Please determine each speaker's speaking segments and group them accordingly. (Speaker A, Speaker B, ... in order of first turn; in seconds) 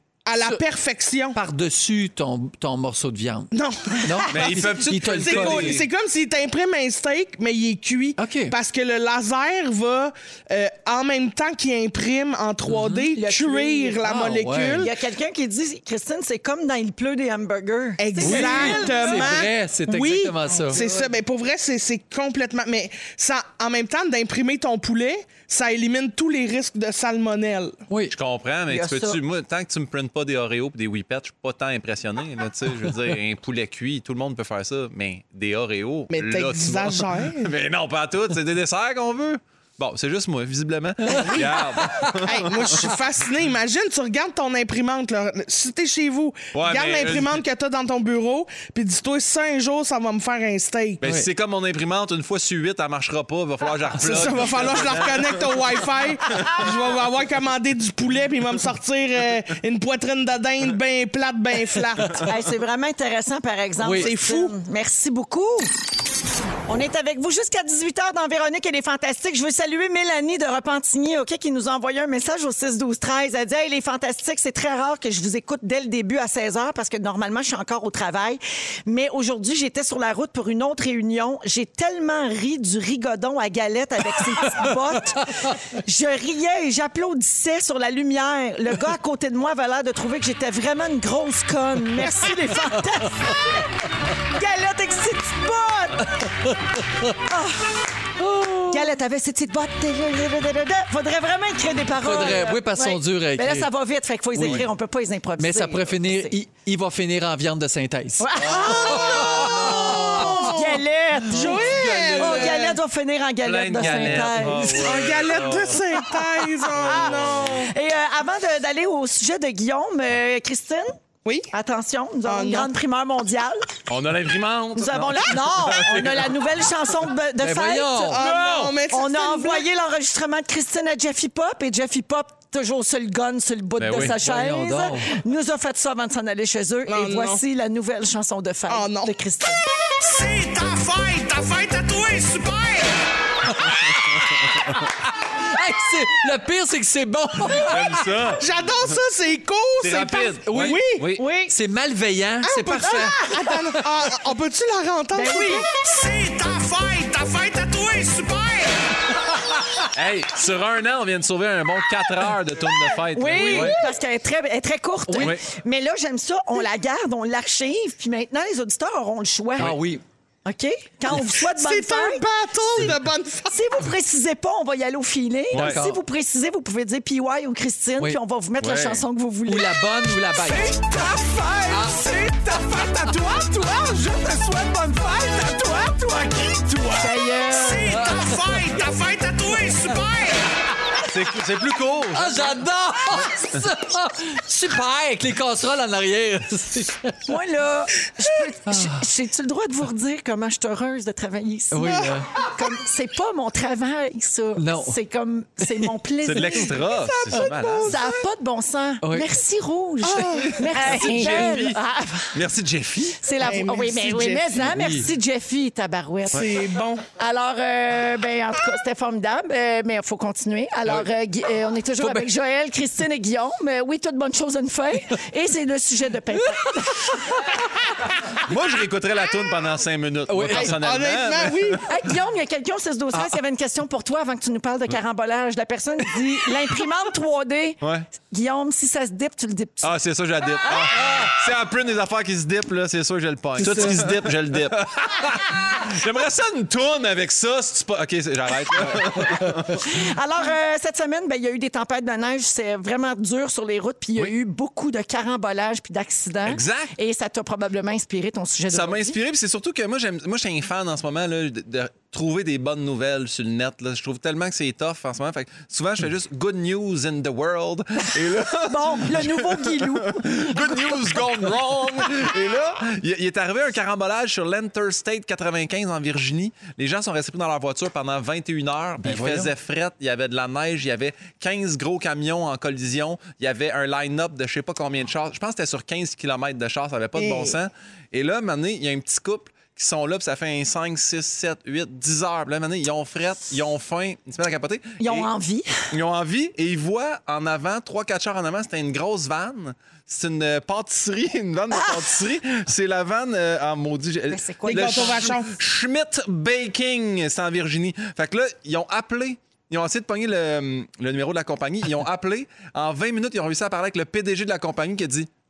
Speaker A: 0.2-1.4, 3.5-14.9, 18.0-27.8, 36.1-37.5, 41.1-51.0, 54.0-62.3, 63.9-64.6, 108.5-112.8, 114.6-117.7, 121.2-121.5, 122.2-122.7, 128.1-129.7, 136.9-137.4, 138.7-139.1, 148.4-151.1, 152.4-155.7, 163.4-163.7, 171.1-173.6, 180.6-186.6, 201.9-202.2, 206.7-208.2, 210.0-211.4, 213.4-214.7, 216.3-217.0, 230.6-231.8, 243.6-244.0, 287.2-287.6, 304.7-305.5
Speaker B: 1.3-3.5, 4.0-5.8, 8.2-8.6, 12.7-13.1, 14.0-14.9, 18.2-20.8, 27.9-28.1, 41.1-41.4, 51.0-51.3, 63.8-64.1, 93.0-93.3, 96.2-97.1, 98.2-99.0, 102.0-103.7, 104.3-104.7, 105.4-110.5, 111.3-112.7, 113.8-114.7, 127.4-128.2, 134.0-135.1, 143.6-143.9, 145.3-148.2, 150.4-150.8, 151.4-154.0, 163.4-163.7, 165.1-165.4, 169.6-170.0, 175.5-176.0, 179.5-180.8, 181.7-182.9, 186.7-187.2, 187.8-188.6, 192.1-197.2, 198.7-199.1, 201.7-202.4, 204.6-205.0, 209.0-209.3, 210.8-211.5, 214.6-215.1, 222.0-222.3, 230.3-230.8, 243.6-244.1, 279.0-279.5
Speaker C: 4.3-5.9, 28.1-42.9, 46.5-47.4, 51.0-55.7, 104.4-104.7, 113.4-115.8, 116.9-117.5, 123.9-126.3, 128.3-128.7, 133.8-134.2, 147.6-148.4, 149.8-151.2, 159.9-163.8, 175.5-175.8, 178.6-179.0, 191.0-192.6, 206.2-208.0, 210.8-211.8, 212.3-213.2, 228.4-231.8, 237.8-238.1, 239.8-249.8, 256.5-256.9, 258.7-295.3, 295.9-315.3
Speaker D: 13.2-14.0, 14.8-19.4, 20.7-21.1, 28.7-29.2, 62.2-65.7, 66.7-93.7, 94.2-96.2, 97.2-97.9, 98.7-106.4, 108.2-114.9, 116.7-120.9, 121.5-123.6, 124.8-139.6, 151.2-151.5, 155.2-155.7, 163.1-169.8, 170.4-172.2, 173.5-179.8, 186.9-188.0, 197.3-206.7, 207.8-212.4, 213.2-216.5, 217.2-227.4, 231.8-239.9, 249.8-259.2, 268.6-271.0, 295.0-295.7, 301.7-302.0, 304.3-305.3
Speaker E: 140.0-143.0, 155.8-158.9, 187.5-190.5